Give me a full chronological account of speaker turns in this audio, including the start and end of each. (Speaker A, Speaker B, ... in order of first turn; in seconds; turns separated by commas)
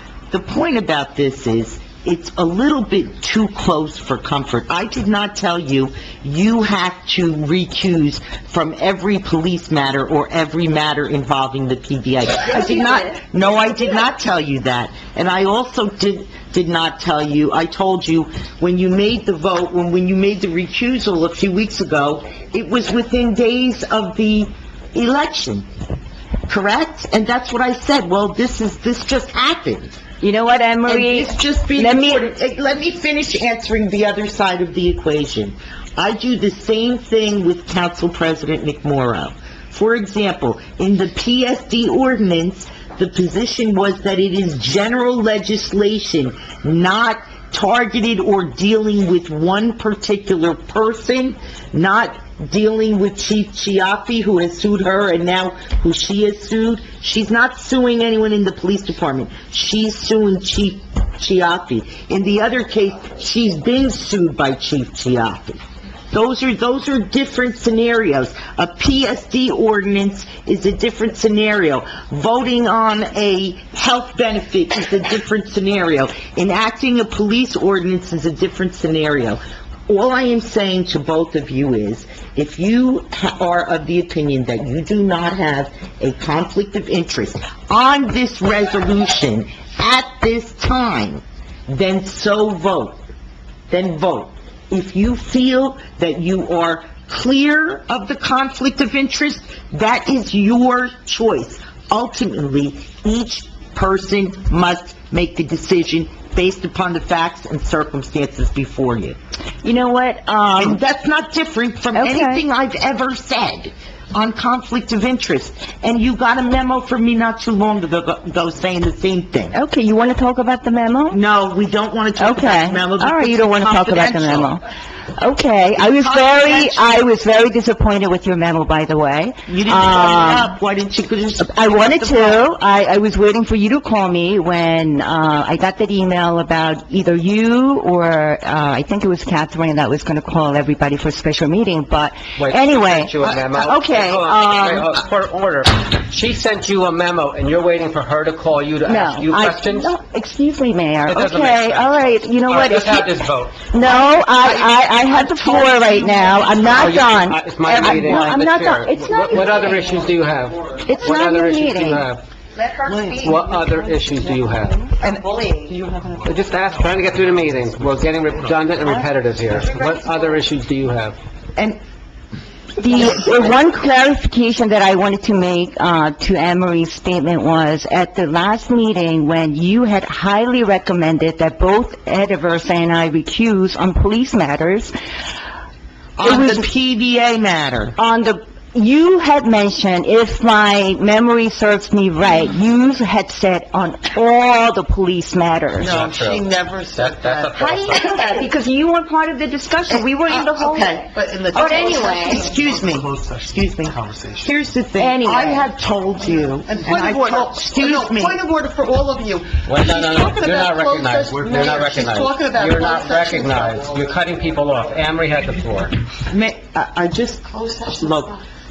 Speaker A: 0.3-25.7, Speaker B: 12.5-13.1, Speaker A: 26.5-29.9, Speaker B: 30.2-32.3, Speaker A: 30.9-65.6, Speaker A: 66.1-93.0, Speaker A: 93.7-109.2, Speaker B: 109.6-110.8, Speaker A: 110.6-119.5, Speaker B: 112.0-112.4, Speaker B: 119.5-121.2, Speaker A: 121.1-124.6, Speaker B: 122.2-124.6, Speaker B: 125.2-130.5, Speaker A: 125.8-127.0, Speaker A: 129.5-132.5, Speaker B: 131.4-145.0, Speaker C: 142.4-149.9, Speaker B: 148.8-153.1, Speaker C: 151.1-153.7, Speaker B: 153.7-160.0, Speaker A: 154.4-157.0, Speaker C: 156.7-162.2, Speaker A: 157.7-158.3, Speaker B: 160.9-162.1, Speaker D: 162.8-163.7, Speaker C: 163.2-164.9, Speaker A: 165.0-165.8, Speaker D: 165.7-166.2, Speaker C: 166.2-171.2, Speaker B: 172.8-184.9, Speaker A: 172.9-173.5, Speaker A: 186.2-188.0, Speaker B: 186.2-186.7, Speaker B: 188.0-196.0, Speaker C: 195.8-198.2, Speaker D: 195.8-197.8, Speaker B: 197.6-202.5, Speaker A: 199.9-201.1, Speaker D: 201.1-203.4, Speaker A: 201.6-208.4, Speaker B: 205.0-205.7, Speaker D: 206.7-213.9, Speaker C: 209.6-216.0, Speaker A: 216.3-218.4, Speaker D: 217.6-217.9